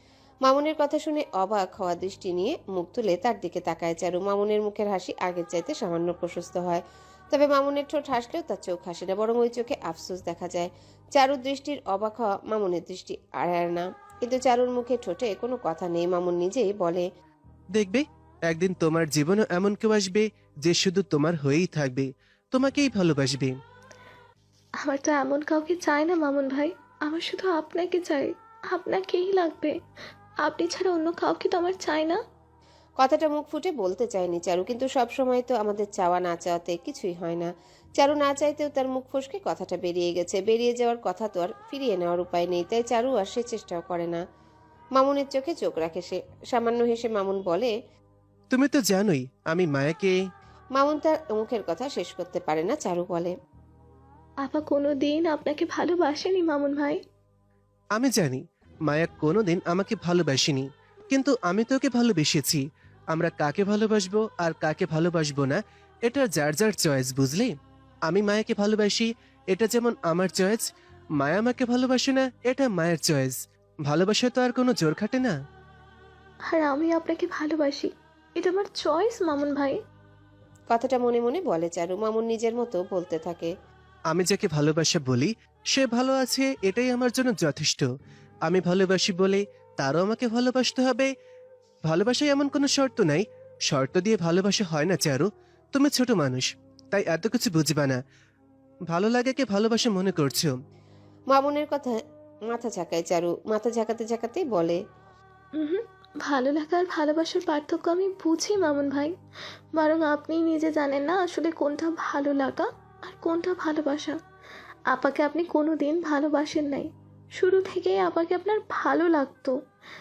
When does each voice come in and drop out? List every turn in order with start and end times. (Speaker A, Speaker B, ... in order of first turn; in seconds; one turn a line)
Speaker A: 0.5-17.1
Speaker B: 17.7-23.6
Speaker C: 24.8-29.7
Speaker C: 30.4-32.2
Speaker A: 33.0-44.2
Speaker A: 45.0-47.7
Speaker B: 48.5-50.1
Speaker A: 50.8-53.3
Speaker C: 54.4-57.0
Speaker B: 58.0-67.5
Speaker B: 68.1-70.7
Speaker B: 71.2-75.3
Speaker C: 76.5-79.8
Speaker A: 80.7-83.5
Speaker B: 84.1-87.9
Speaker B: 88.5-91.1
Speaker B: 91.9-98.0
Speaker B: 98.9-100.5
Speaker A: 101.3-104.8
Speaker C: 105.6-109.1
Speaker C: 109.8-114.2
Speaker C: 114.9-119.6